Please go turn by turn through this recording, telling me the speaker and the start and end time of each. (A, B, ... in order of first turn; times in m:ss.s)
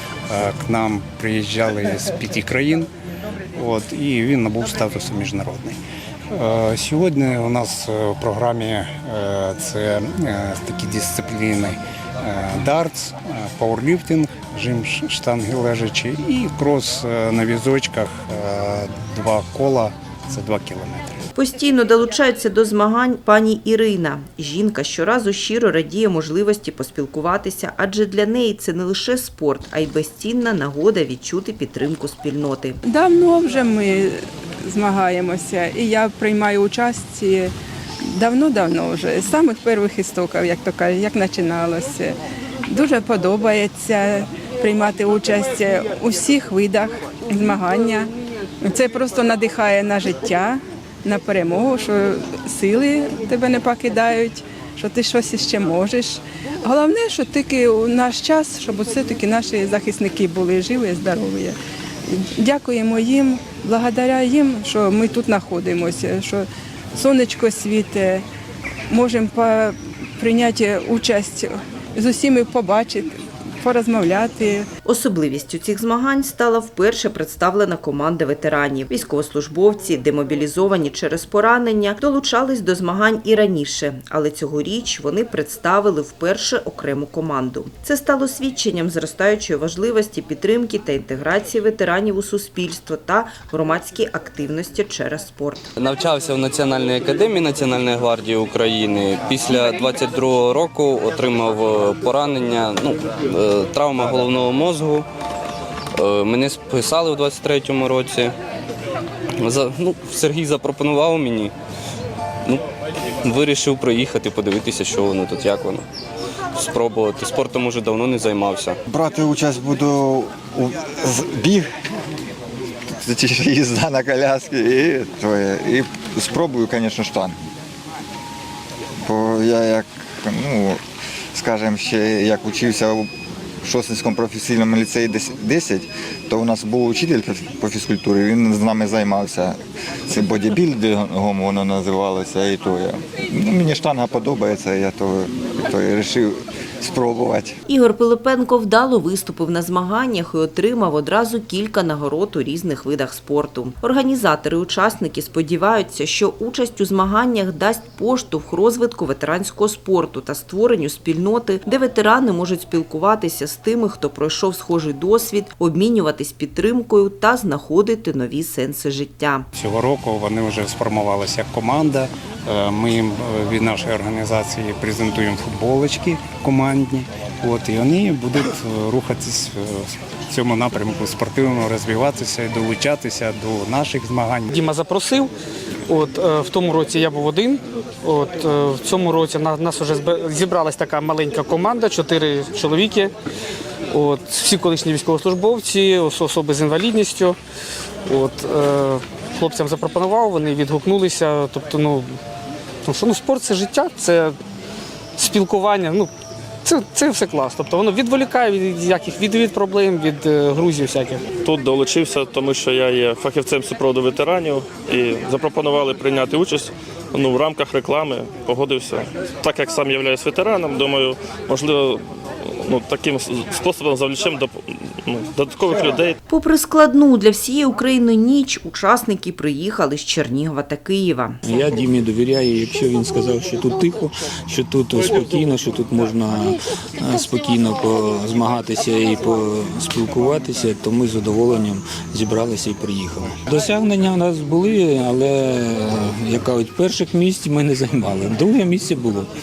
0:00.3-0:02.9 A
0:03.6-0:05.8 A
0:06.3-0:21.3 A
0:21.4-0:32.8 B
0:32.9-0:34.2 C
0:34.7-0:37.5 C
0:38.1-0:42.2 C
0:42.7-0:48.1 C
0:48.6-1:01.6 C
1:02.2-1:08.2 C
1:08.9-1:13.1 C
1:13.6-1:14.6 C
1:14.9-1:35.6 B
1:35.8-1:45.1 D
1:46.0-1:48.3 D
1:49.4-1:51.5 D
1:53.2-1:55.8 D
1:56.6-1:58.8 D
1:58.9-2:01.7 E
2:03.0-2:07.4 E
2:09.1-2:10.8 E
2:11.3-2:13.1 E
2:13.6-2:27.6 E
2:27.7-2:49.5 B
2:49.5-3:04.5 A
3:04.5-3:05.3 F
3:05.9-3:13.1 F
3:13.9-3:17.4 F
3:18.1-3:22.2 F
3:22.8-3:24.4 F
3:25.2-3:26.1 F
3:26.6-3:31.2 F
3:31.4-3:46.2 G
3:46.3-3:51.4 B
3:51.4-4:09.3 H